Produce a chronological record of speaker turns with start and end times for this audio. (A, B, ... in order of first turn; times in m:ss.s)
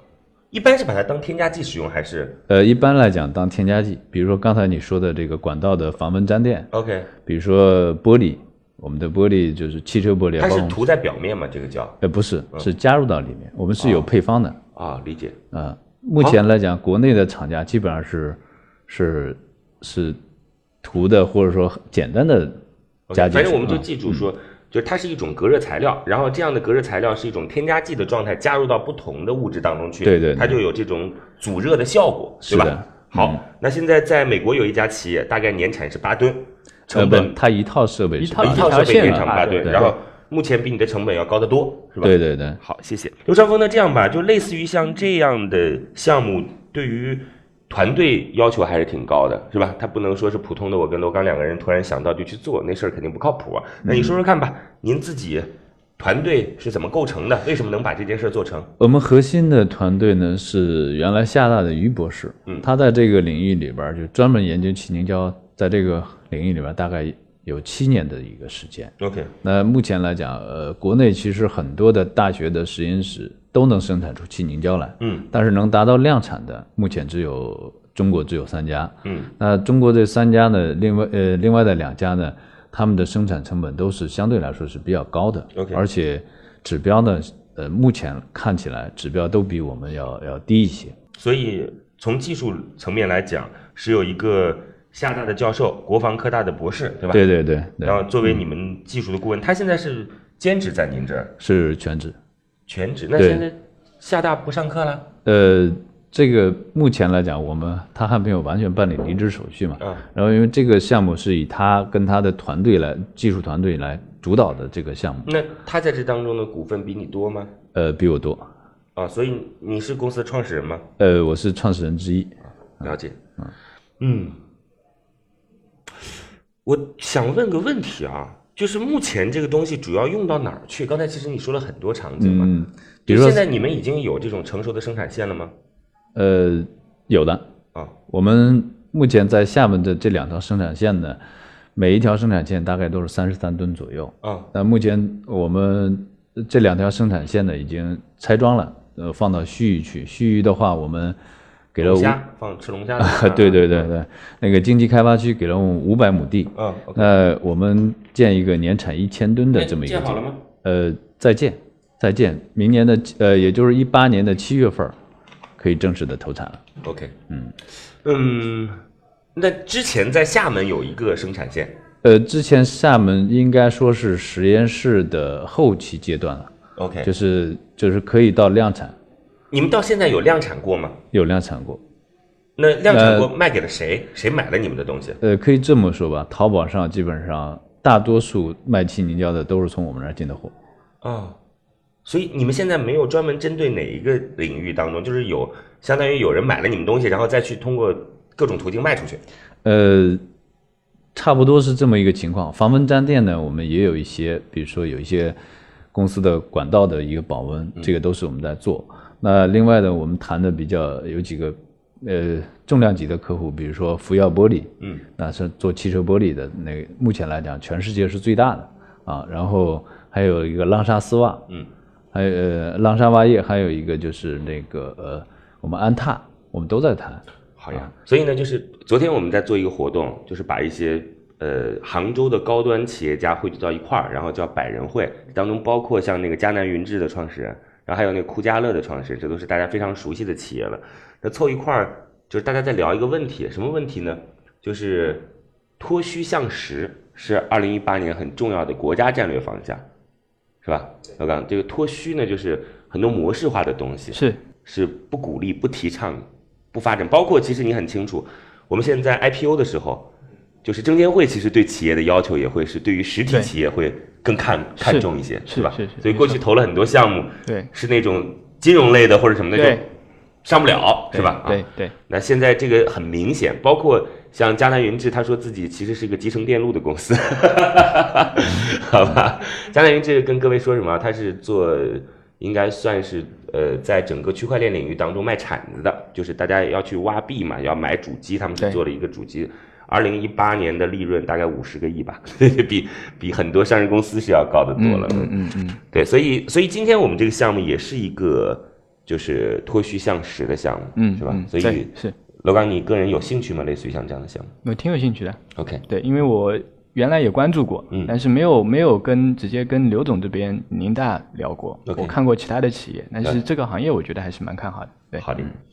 0:00.5-0:02.4 A
0:02.5-0:06.7 B
0:06.7-0:07.1 A
0:07.2-0:10.8 B
0:10.4-0:12.0 A
0:12.0-0:14.6 B
0:13.8-0:14.1 A
0:14.8-0:15.4 A
0:15.5-0:20.2 B
0:20.8-0:22.6 B
0:23.1-0:37.4 A
0:23.1-0:24.2 B
0:30.0-0:30.6 B
0:32.4-0:33.4 B
0:36.9-0:39.9 B
0:38.2-0:40.0 C
0:38.4-0:58.7 A
0:42.0-0:42.6 B
0:53.8-0:54.1 B
0:58.8-1:31.0 B
1:09.0-1:09.3 A
1:15.0-1:15.3 A
1:19.0-1:19.3 A
1:25.5-1:25.8 A
1:31.2-1:37.2 A
1:37.1-1:38.4 B
1:37.8-1:41.3 A
1:41.4-1:42.2 B
1:42.7-1:45.1 A
1:43.2-1:43.4 B
1:45.2-1:55.3 B
1:55.2-1:57.5 A
1:57.7-1:58.5 B
1:59.0-2:00.8 A
2:01.0-2:03.5 B
2:02.8-2:03.2 A
2:04.0-2:04.4 A
2:06.6-2:12.5 A
2:12.2-2:13.4 B
2:13.1-2:15.5 A
2:16.1-2:17.4 B
2:18.1-2:21.2 B
2:21.8-2:31.2 B
2:24.2-2:24.5 A
2:31.7-2:32.2 B
2:31.8-2:33.9 A
2:33.0-2:45.0 B
2:36.6-2:37.1 A
2:39.5-2:40.4 A
2:45.6-2:46.6 B
2:46.8-2:47.1 A
2:47.3-2:47.5 B
2:48.0-2:48.8 A
2:49.3-2:51.8 A
2:52.0-2:56.5 B
2:56.8-2:57.1 A
2:57.0-2:59.0 B
2:59.5-3:01.0 A
3:01.1-3:01.8 B
3:02.6-3:05.2 A
3:02.9-3:03.3 B
3:05.2-3:10.5 B
3:11.0-3:11.4 A
3:12.0-3:19.2 A
3:19.6-3:20.2 B
3:21.1-3:25.4 B
3:25.9-3:41.5 B
3:42.1-3:47.9 B
3:47.6-4:09.8 A
4:10.6-4:20.1 A
4:14.1-4:14.4 C
4:20.6-4:29.9 A
4:24.8-4:26.4 C
4:29.5-4:29.8 C
4:30.4-4:55.3 A
4:31.1-4:31.9 C
4:54.8-4:55.8 C
4:55.9-5:04.5 A
5:01.0-5:02.1 C
5:04.6-5:15.2 C
5:05.6-5:05.8 A
5:11.9-5:12.1 A
5:15.2-5:15.5 A